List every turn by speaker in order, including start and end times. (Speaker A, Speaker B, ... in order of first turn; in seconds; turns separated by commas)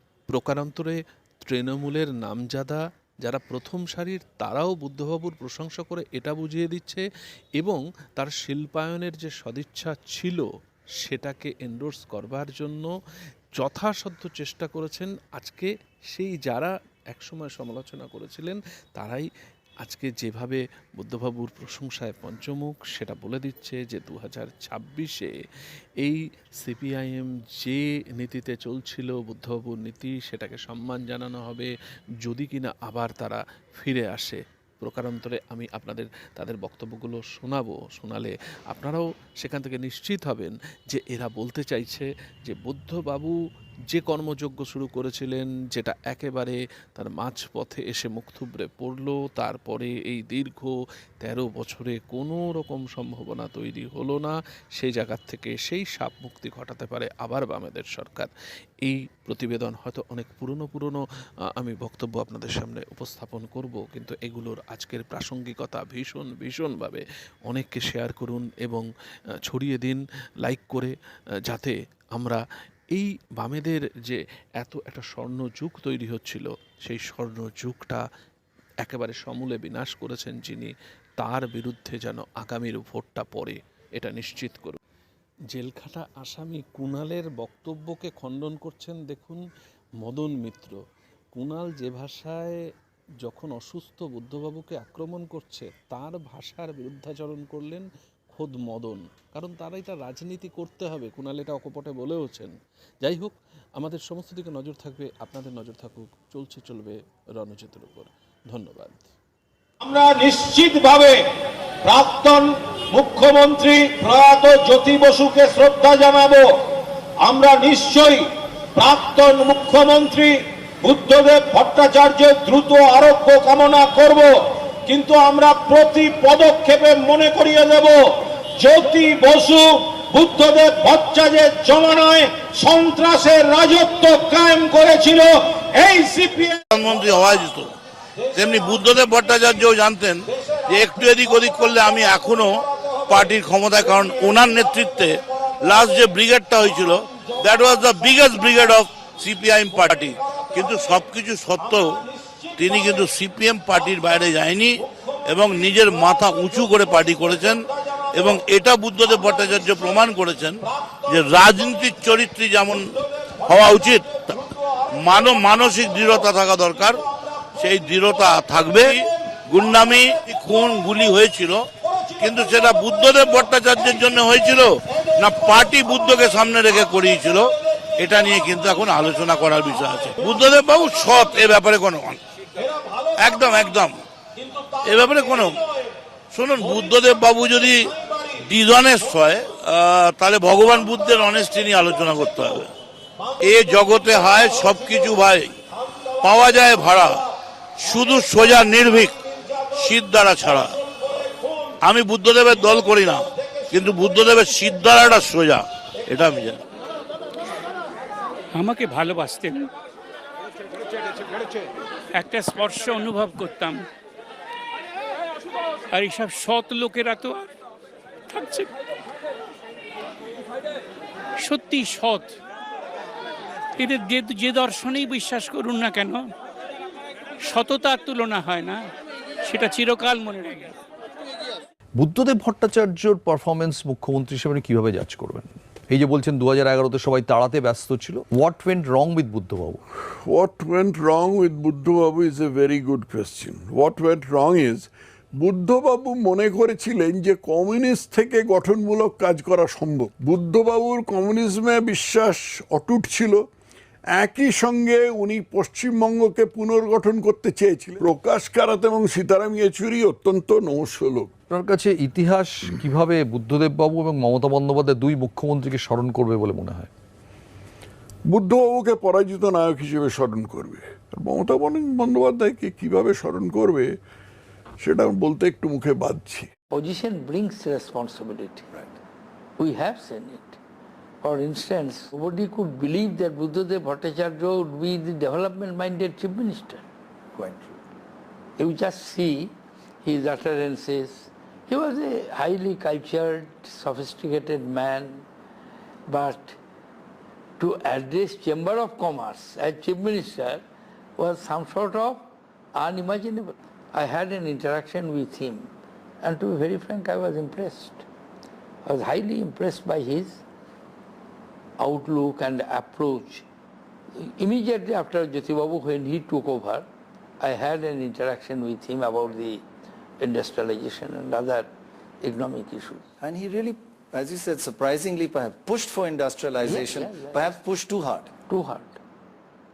Speaker A: 0.3-7.0, Speaker A: 7.6-10.4, Speaker A: 11.0-12.9, Speaker A: 13.6-19.2, Speaker A: 19.8-25.3, Speaker A: 26.0-31.7, Speaker A: 32.2-43.3, Speaker A: 43.9-58.3, Speaker A: 58.8-61.0, Speaker A: 61.5-68.8, Speaker A: 69.5-70.9, Speaker A: 71.5-72.4, Speaker A: 72.9-78.0, Speaker A: 78.8-84.8, Speaker A: 85.5-89.4, Speaker A: 90.0-90.8, Speaker A: 91.3-92.6, Speaker A: 93.2-109.1, Speaker B: 109.8-111.2, Speaker B: 111.8-116.5, Speaker B: 117.2-136.6, Speaker C: 136.7-137.7, Speaker C: 138.3-152.0, Speaker C: 152.6-164.4, Speaker C: 164.9-171.7, Speaker C: 172.2-182.2, Speaker C: 183.2-183.9, Speaker C: 184.8-185.6, Speaker C: 186.3-192.7, Speaker C: 193.4-195.6, Speaker C: 196.2-197.2, Speaker C: 197.8-199.2, Speaker C: 199.7-200.7, Speaker C: 201.8-206.6, Speaker D: 208.5-209.7, Speaker D: 212.2-213.8, Speaker D: 215.9-217.4, Speaker D: 218.3-218.7, Speaker D: 221.4-222.3, Speaker D: 223.8-226.2, Speaker D: 227.5-228.8, Speaker D: 229.5-230.7, Speaker E: 232.0-239.8, Speaker F: 240.2-253.4, Speaker F: 254.1-261.3, Speaker E: 261.5-266.9, Speaker F: 268.3-273.9, Speaker F: 274.8-276.5, Speaker G: 276.7-278.7, Speaker G: 279.6-280.6, Speaker G: 281.2-286.8, Speaker H: 287.3-287.8, Speaker G: 288.6-295.2, Speaker G: 296.1-296.6, Speaker G: 297.6-300.6, Speaker G: 301.2-308.0, Speaker G: 308.8-310.4, Speaker G: 311.8-313.4, Speaker G: 314.2-316.9, Speaker G: 317.4-319.6, Speaker G: 320.2-323.1, Speaker H: 323.2-328.3, Speaker G: 326.6-327.6, Speaker G: 328.5-329.0